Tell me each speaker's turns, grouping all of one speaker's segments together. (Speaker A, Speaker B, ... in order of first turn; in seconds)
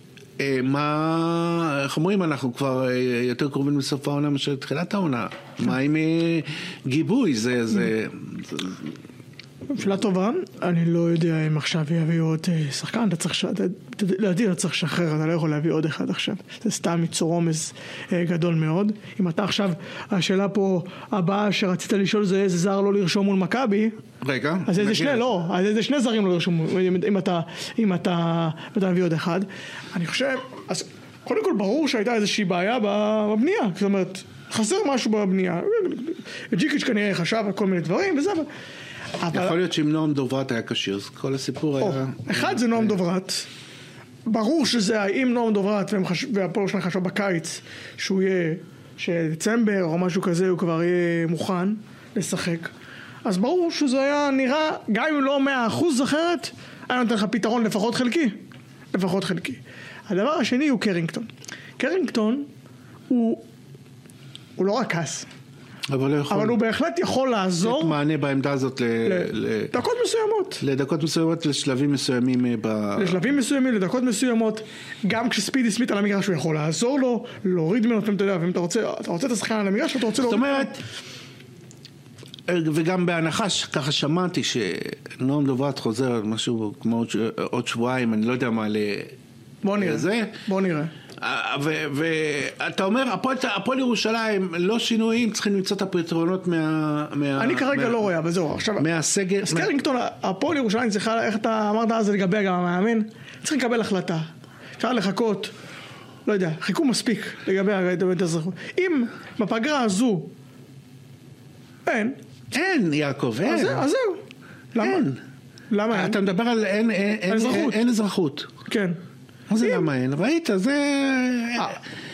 Speaker A: 0.4-8.9, 24.2-25.2, 39.3-43.0, 65.9-66.6, 67.6-69.7, 70.6-73.2, 80.2-80.8, 82.5-89.2, 89.8-90.4, 91.2-98.1, 98.8-99.7, 112.5-113.8, 114.8-115.2, 115.9-118.5, 119.5-121.8
Speaker B: 9.7-24.0, 24.7-38.5, 39.2-39.5, 41.8-43.5, 44.3-52.7, 53.2-58.4, 58.9-62.5, 63.1-63.4, 64.6-65.3, 66.3-68.0, 69.0-70.6, 73.0-80.7, 89.6-90.9, 97.4-98.9, 99.4-104.3, 104.8-105.5, 106.3-110.3, 111.9-112.2, 113.5-114.2, 114.7-115.1, 115.7-116.2, 117.3-117.8, 118.7-119.0